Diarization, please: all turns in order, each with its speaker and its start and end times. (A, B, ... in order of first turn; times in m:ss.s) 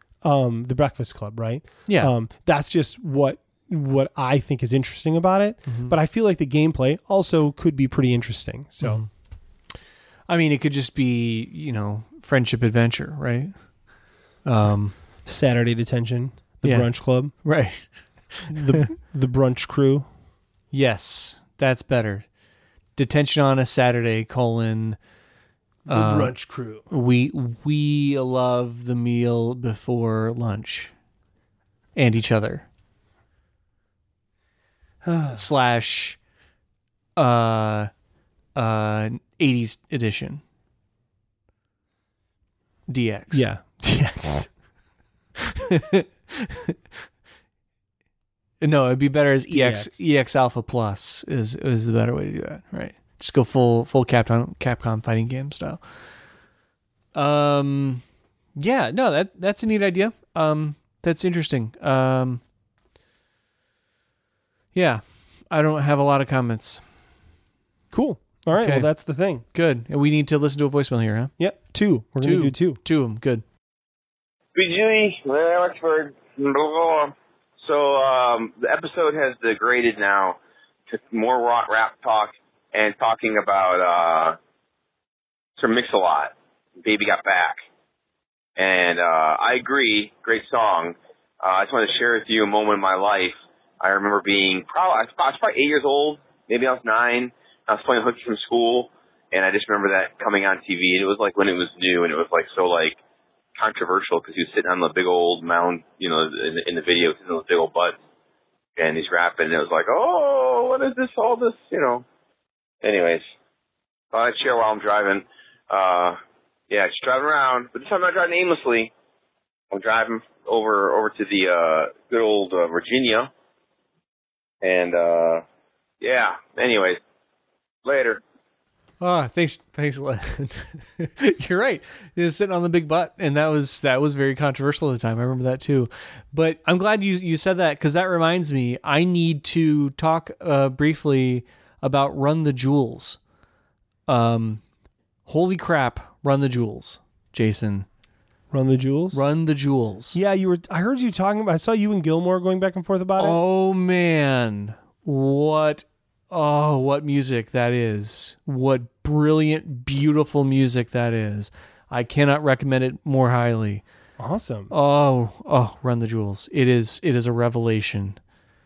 0:00.2-0:09.0 A
0:01.9-0:02.1 B
0:05.7-0:05.9 B
0:08.8-0:09.1 B
0:10.3-0:13.5 B
0:14.4-0:14.9 B
0:15.2-0:17.3 A
0:17.4-0:18.8 B
0:18.5-0:20.0 A
0:20.7-0:22.2 B
0:23.0-0:25.0 B
0:25.9-0:26.3 B
0:25.9-0:26.9 A
0:26.9-0:30.9 B
0:32.0-0:32.7 B
0:35.0-0:35.4 A
0:35.3-0:36.2 B
0:37.2-0:37.9 B
0:38.5-0:40.4 B
0:42.9-0:43.5 B
0:43.3-0:44.5 A
0:45.5-0:46.7 B
0:48.6-0:55.8 B
0:49.5-0:50.1 A
0:57.1-0:58.0 B
0:58.6-1:02.4 B
1:04.7-1:06.8 B
1:07.9-1:09.4 A
1:08.5-1:08.9 B
1:09.5-1:11.3 B
1:11.4-1:12.8 A
1:12.2-1:13.4 B
1:14.5-1:24.4 C
1:25.6-1:27.6 C
1:28.6-1:43.0 C
1:43.5-1:48.0 C
1:48.8-1:52.0 C
1:52.8-1:53.2 C
1:54.1-1:56.2 C
1:56.7-1:58.9 C
1:59.7-2:03.3 C
2:04.6-2:05.4 C
2:06.0-2:07.0 C
2:07.8-2:08.2 C
2:09.0-2:23.2 B
2:24.1-2:24.6 B
2:25.3-2:27.9 B
2:28.5-2:29.2 A
2:29.1-2:30.2 B
2:30.1-2:33.4 A
2:33.2-2:43.8 B
2:44.2-2:44.7 A
2:44.7-2:48.2 B